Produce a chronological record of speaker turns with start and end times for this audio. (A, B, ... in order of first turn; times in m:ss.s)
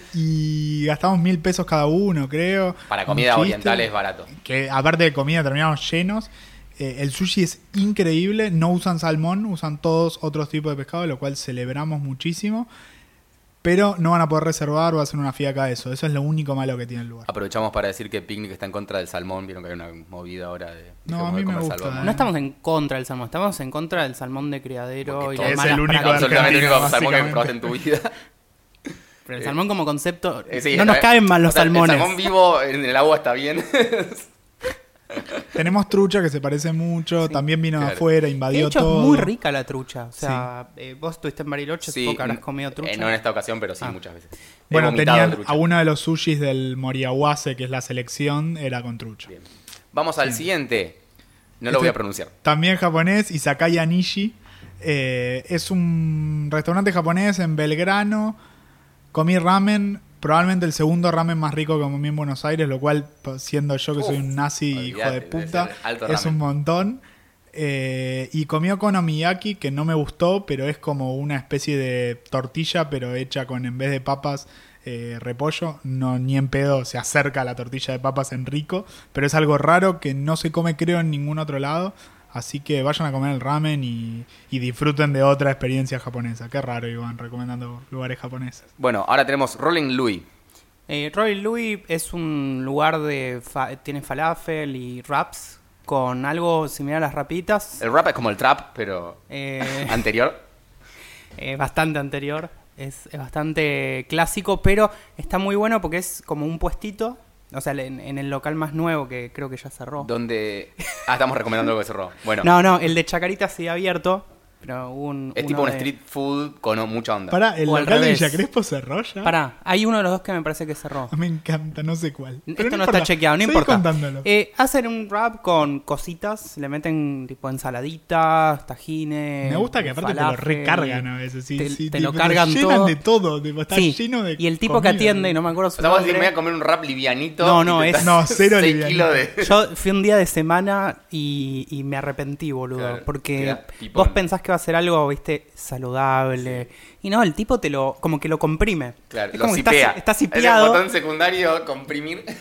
0:00.1-0:12.7 A
0:02.9-0:04.3 B
0:13.6-0:17.3 A
0:17.3-0:22.2 B
0:21.1-0:22.2 A
0:22.0-0:26.9 C
0:25.0-0:28.1 B
0:25.4-0:27.7 A
0:29.3-0:32.2 C
0:30.5-0:34.3 B
0:35.1-0:35.4 B
0:35.5-0:39.3 A
0:37.8-0:38.0 B
0:38.5-0:43.2 C
0:40.2-0:40.5 A
0:41.9-0:45.6 B
0:44.7-0:49.3 A
0:49.3-0:51.0 B
0:51.6-0:52.3 B
0:51.7-0:58.4 A
0:59.1-1:07.0 A
1:04.0-1:06.4 B
1:07.5-1:28.6 A
1:28.8-1:30.3 B
1:30.9-1:37.8 C
1:37.8-1:40.4 B
1:39.3-1:40.0 C
1:41.4-1:50.1 C
1:50.0-1:52.5 B
1:52.4-1:55.9 C
1:55.4-1:57.4 B
1:57.3-1:59.3 A
1:57.7-1:58.4 C
1:59.2-2:01.1 C
2:01.1-2:04.3 A
2:02.5-2:13.0 C
2:09.4-2:15.4 A
2:13.7-2:16.3 C
2:15.8-2:19.6 B
2:17.4-2:18.2 C
2:18.0-2:19.2 A
2:19.4-2:30.8 C
2:22.8-2:24.2 B
2:26.4-2:26.7 B
2:29.1-2:32.3 B